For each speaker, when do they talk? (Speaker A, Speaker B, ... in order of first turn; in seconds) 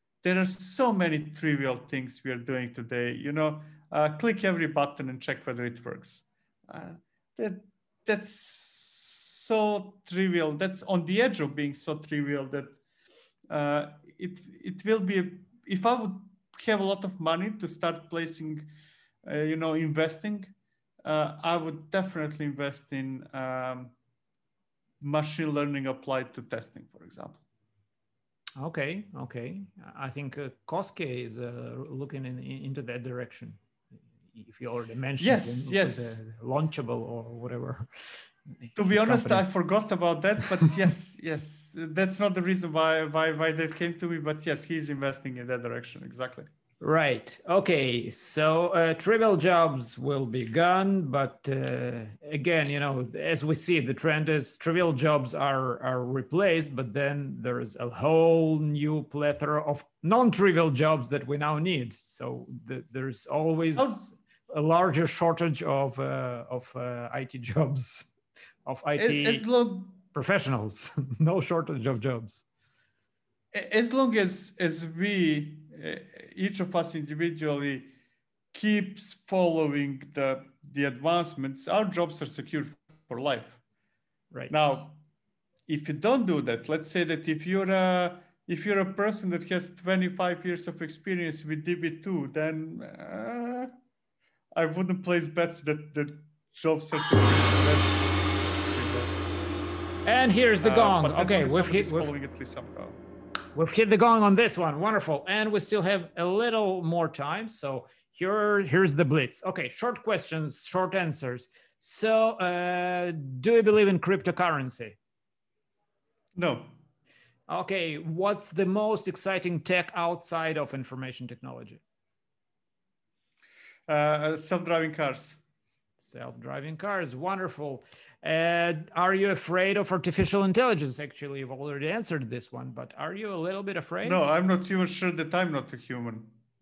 Speaker A: 0.2-12.8, 13.5-18.7, 19.2-20.5, 21.1-23.9, 25.0-27.4, 35.2-36.2, 38.8-46.5, 63.8-64.1, 69.0-70.0, 73.5-77.9, 78.5-83.6, 84.5-85.0, 85.7-93.7, 94.5-97.9, 98.7-99.2, 100.6-103.0, 116.4-116.7, 123.9-125.4, 134.0-136.3
Speaker B: 28.6-33.6, 34.3-39.5, 46.8-69.5, 70.1-72.5, 84.3-84.8, 100.0-102.1, 103.5-115.0, 117.5-121.8, 126.0-134.2